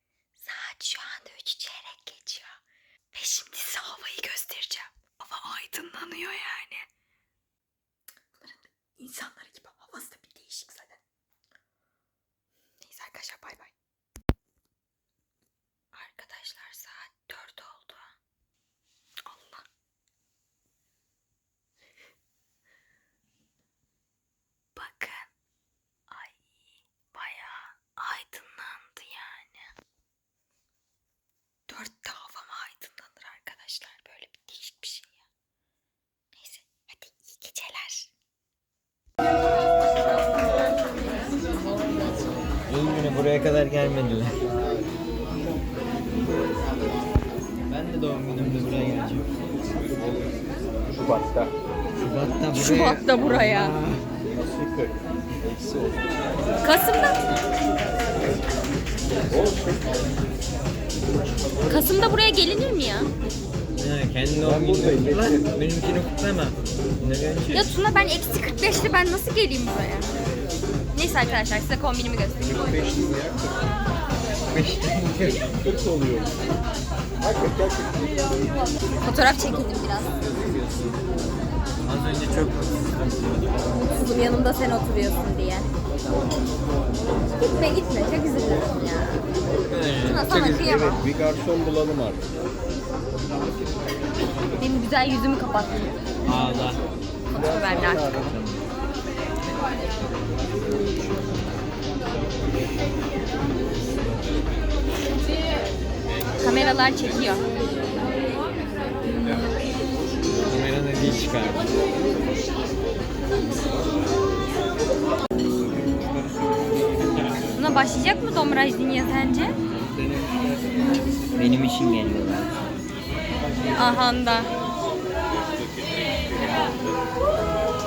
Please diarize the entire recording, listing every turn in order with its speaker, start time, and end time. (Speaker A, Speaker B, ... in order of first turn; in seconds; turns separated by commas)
Speaker A: 0.4-2.6, Speaker A: 3.1-6.9, Speaker A: 8.4-11.0, Speaker A: 12.8-13.7, Speaker A: 15.9-18.1, Speaker A: 19.2-19.6, Speaker A: 24.7-25.3, Speaker A: 26.1-26.4, Speaker A: 27.1-29.7, Speaker A: 31.7-35.1, Speaker A: 36.4-38.1, Speaker B: 42.7-44.4, Speaker B: 47.7-49.3, Speaker C: 49.9-51.5, Speaker B: 52.0-54.1, Speaker A: 52.5-53.7, Speaker C: 54.2-56.1, Speaker A: 56.6-57.2, Speaker C: 59.3-60.0, Speaker A: 61.6-63.1, Speaker B: 63.8-67.7, Speaker C: 64.4-65.5, Speaker A: 67.5-70.1, Speaker A: 70.9-72.8, Speaker C: 72.4-73.7, Speaker B: 74.5-75.5, Speaker C: 75.4-76.4, Speaker C: 77.2-78.1, Speaker A: 79.0-80.1, Speaker B: 81.8-83.6, Speaker A: 83.7-85.7, Speaker A: 87.4-89.2, Speaker B: 89.6-90.8, Speaker A: 90.0-91.0, Speaker C: 90.3-92.2, Speaker A: 94.6-96.0, Speaker B: 96.2-96.8, Speaker A: 97.3-98.2, Speaker C: 97.3-98.3, Speaker B: 98.0-98.6, Speaker A: 106.4-107.4, Speaker B: 110.4-111.7, Speaker C: 115.8-117.3, Speaker A: 117.5-119.5, Speaker C: 119.9-120.4, Speaker B: 121.3-122.5, Speaker A: 123.7-124.5